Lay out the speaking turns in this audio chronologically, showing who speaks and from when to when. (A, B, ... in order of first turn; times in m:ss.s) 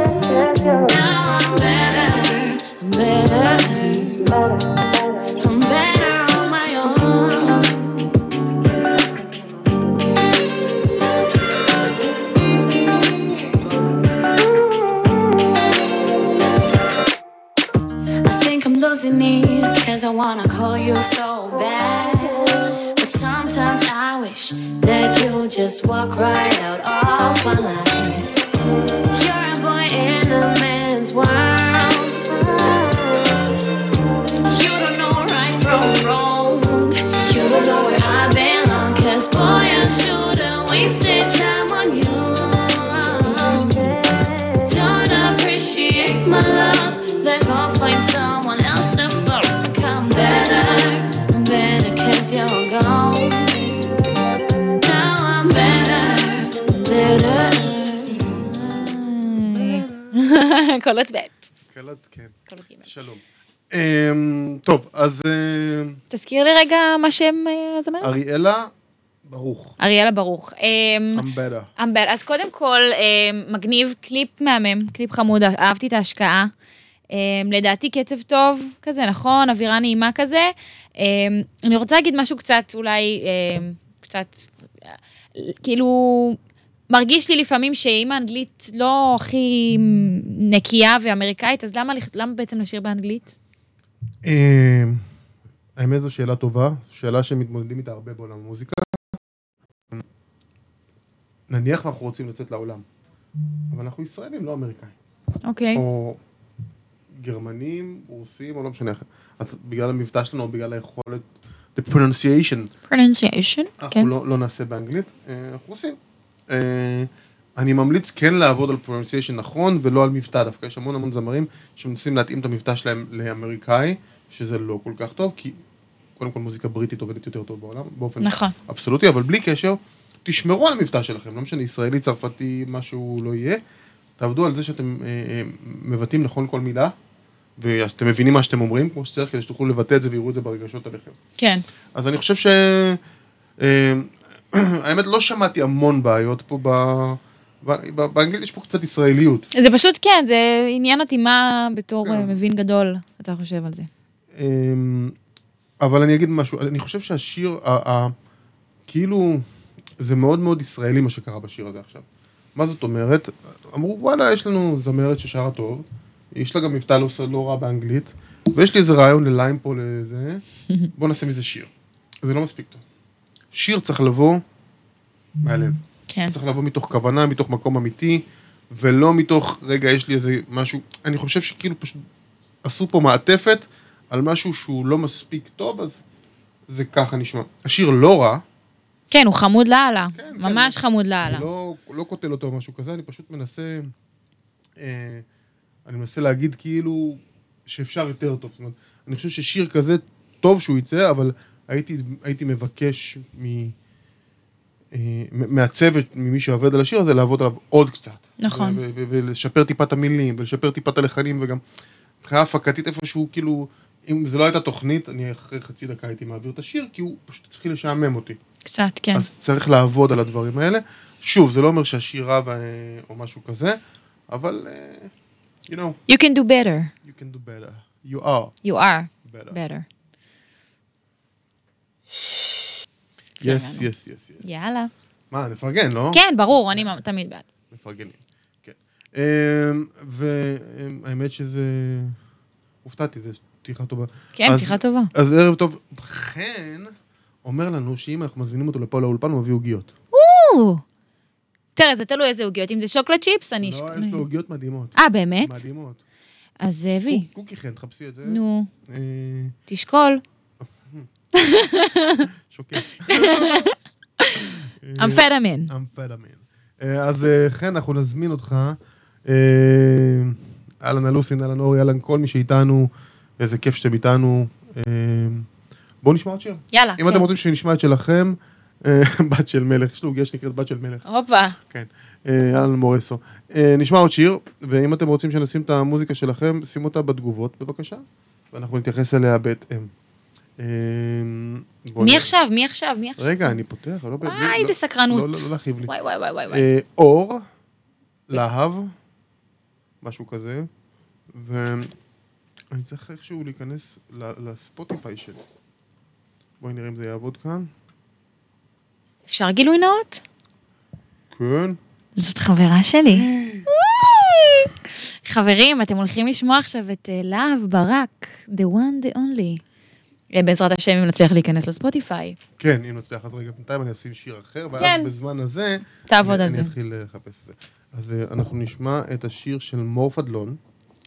0:00.7-0:04.4 A
0:05.4-0:07.9 A
0:18.2-0:28.4 A
0:29.1-0:32.2 A
0:34.4-0:44.0 A
0:44.6-0:53.5 A
0:54.8-0:58.4 A
0:58.5-1:01.4 B
0:59.5-1:00.3 C
1:01.7-1:06.0 C
1:02.5-1:02.9 B
1:06.1-1:08.1 B
1:08.0-1:08.7 C
1:09.2-1:09.7 C
1:09.8-1:11.2 B
1:11.1-1:11.7 C
1:11.8-1:16.5 B
1:17.1-1:26.4 B
1:26.9-1:33.3 B
1:34.2-1:35.0 C
1:35.8-1:39.2 C
1:41.5-1:42.8 C
1:43.7-1:44.9 C
1:45.4-1:45.8 B
1:45.7-1:46.2 C
1:47.1-1:52.7 C
1:52.9-1:54.1 B
1:53.8-1:56.0 C
1:56.5-2:05.6 C
2:06.2-2:13.6 C
2:08.2-2:08.5 B
2:14.2-2:16.9 C
2:17.6-2:21.2 C
2:21.4-2:21.6 B
2:21.9-2:23.0 C
2:23.6-2:29.5 C
2:29.5-2:33.9 B
2:32.0-2:32.4 C
2:34.3-2:35.2 C
2:35.8-2:38.1 C
2:38.9-2:39.4 C
2:40.0-2:42.0 C
2:42.5-2:50.4 C
2:50.9-2:51.7 C
2:52.2-2:52.8 C
2:53.5-2:54.4 C
2:55.4-3:02.0 C
3:02.6-3:06.0 C
3:06.7-3:08.4 C
3:09.1-3:11.4 B
3:10.1-3:13.9 C
3:14.8-3:15.2 C
3:15.8-3:23.7 C
3:24.9-3:31.6 C
3:28.4-3:28.8 B
3:32.2-3:38.4 C
3:38.6-3:39.2 B
3:39.1-3:43.8 C
3:44.3-3:45.1 C
3:45.7-3:46.0 C
3:46.1-3:46.9 B
3:47.0-3:48.5 C
3:48.6-3:49.8 B
3:49.2-3:49.6 C
3:53.4-3:53.9 B
3:53.4-3:54.5 C
3:54.4-3:54.9 B
3:55.3-3:57.0 C
3:56.1-3:57.4 B
3:57.7-4:02.2 C
4:02.8-4:09.9 C
4:04.4-4:05.1 B
4:10.1-4:10.8 B
4:11.8-4:14.2 B
4:13.6-4:16.0 C
4:15.0-4:15.6 B
4:16.6-4:17.3 B
4:17.1-4:19.5 C
4:18.2-4:18.7 B
4:19.7-4:20.2 B
4:20.8-4:21.1 C
4:21.4-4:22.3 B
4:22.4-4:23.7 C
4:23.0-4:24.4 B
4:24.7-4:35.5 C
4:25.0-4:25.7 B
4:36.0-4:41.0 C
4:36.7-4:37.3 B
4:41.0-4:41.6 B
4:41.6-4:49.9 C
4:50.6-4:52.3 C
4:52.0-4:53.6 B
4:53.2-4:55.9 C
4:54.2-4:56.6 B
4:56.5-4:57.4 C
4:58.3-4:58.9 C
5:00.0-5:00.7 C
5:01.3-5:01.9 C
5:02.7-5:05.4 C
5:06.6-5:07.7 C
5:09.3-5:10.2 B
5:11.3-5:11.8 C
5:12.2-5:14.7 B
5:13.1-5:13.6 C
5:15.2-5:19.6 B
5:20.3-5:22.4 B
5:22.6-5:30.6 C
5:24.8-5:25.1 B
5:26.1-5:26.7 B